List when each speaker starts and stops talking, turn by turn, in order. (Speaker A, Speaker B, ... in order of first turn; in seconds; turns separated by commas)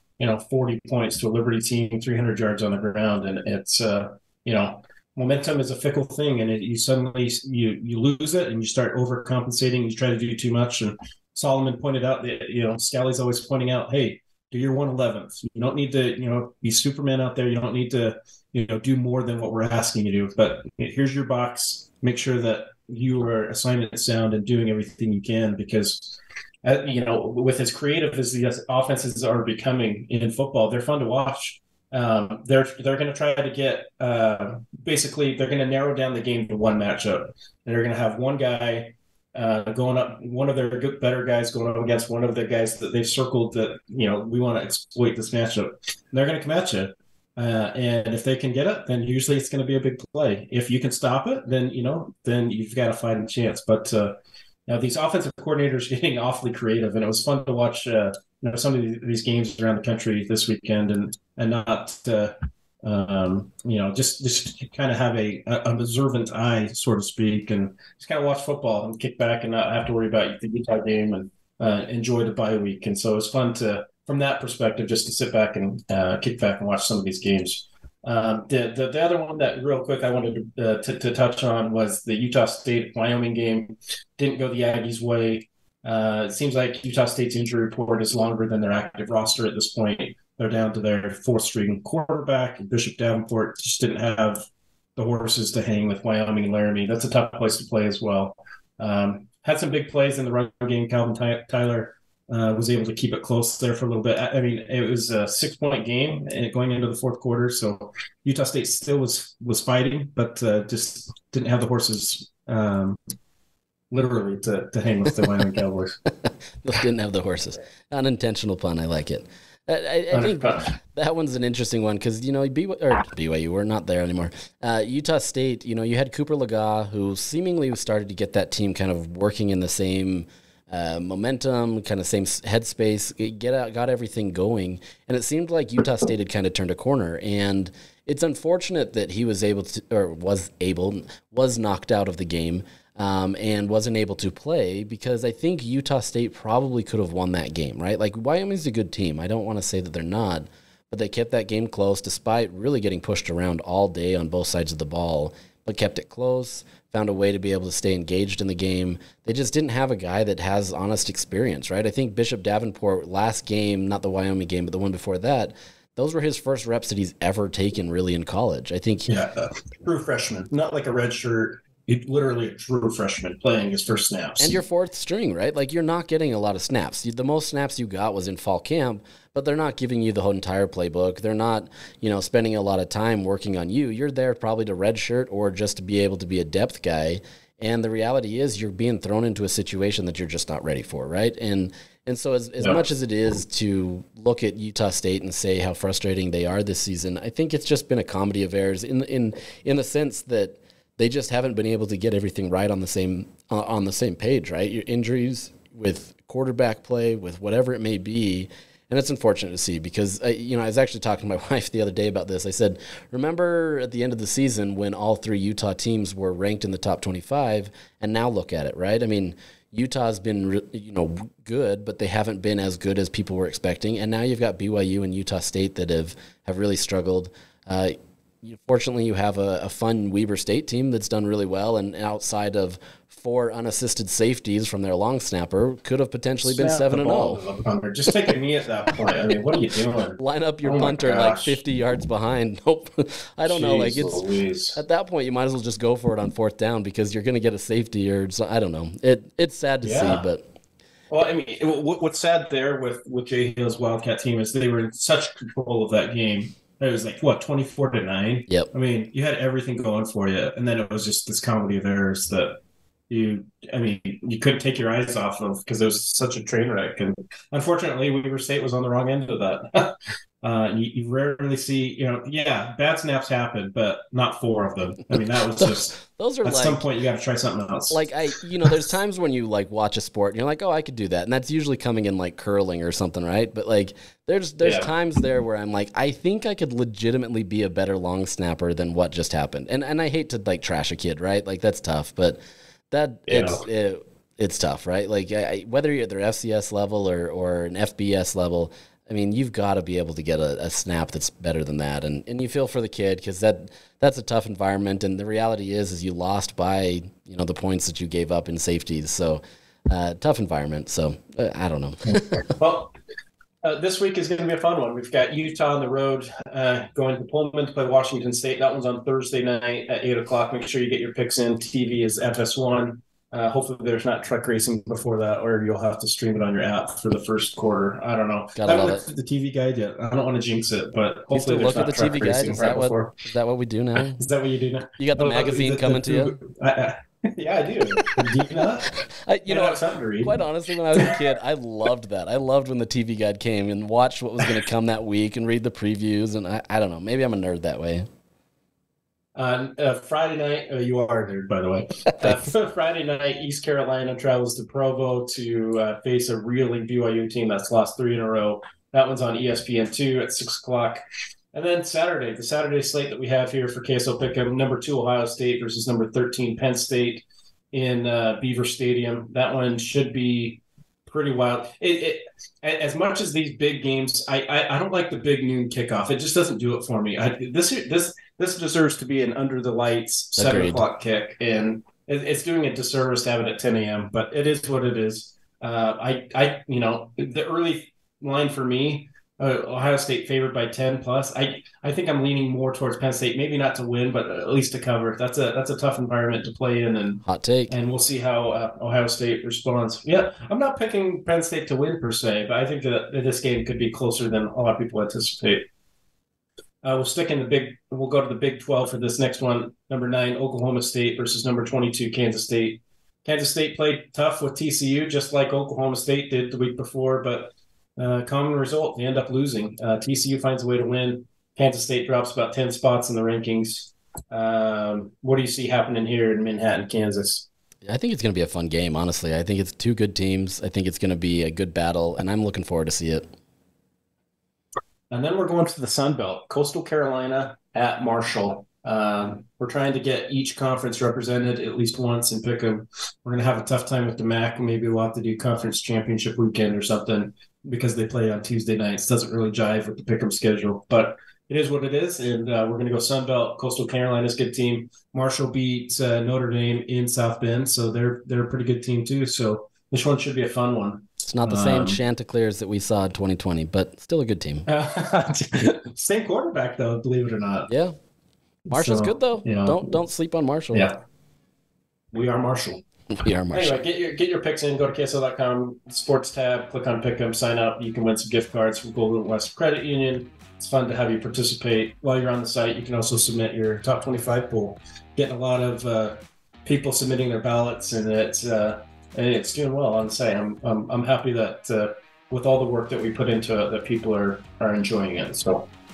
Speaker A: 0.2-113.0, Speaker A: 113.9-116.0, Speaker B: 116.2-169.1, Speaker A: 120.1-120.7, Speaker A: 169.1-174.6, Speaker B: 174.4-237.4, Speaker A: 236.4-241.6, Speaker B: 240.2-244.2, Speaker A: 243.5-244.8, Speaker B: 244.8-250.5, Speaker A: 249.8-250.2, Speaker A: 251.1-262.6, Speaker A: 263.1-278.1, Speaker B: 275.6-276.8, Speaker B: 277.9-292.4, Speaker A: 284.6-284.9, Speaker B: 292.9-312.5, Speaker A: 293.3-293.6, Speaker A: 312.4-312.9, Speaker A: 313.6-333.2, Speaker B: 328.6-329.0, Speaker B: 331.3-334.2, Speaker A: 334.1-338.9, Speaker B: 335.0-336.4, Speaker B: 339.2-348.1, Speaker A: 339.5-340.4, Speaker A: 349.4-361.0, Speaker A: 361.5-405.7, Speaker B: 380.4-380.8, Speaker B: 397.3-397.7, Speaker A: 406.8-427.5, Speaker B: 427.9-433.3, Speaker A: 435.1-462.0, Speaker B: 461.3-464.7, Speaker A: 464.7-467.7, Speaker B: 467.7-468.0, Speaker A: 468.7-469.9, Speaker B: 468.7-470.9, Speaker A: 472.1-472.8, Speaker B: 473.1-473.8, Speaker A: 473.5-495.7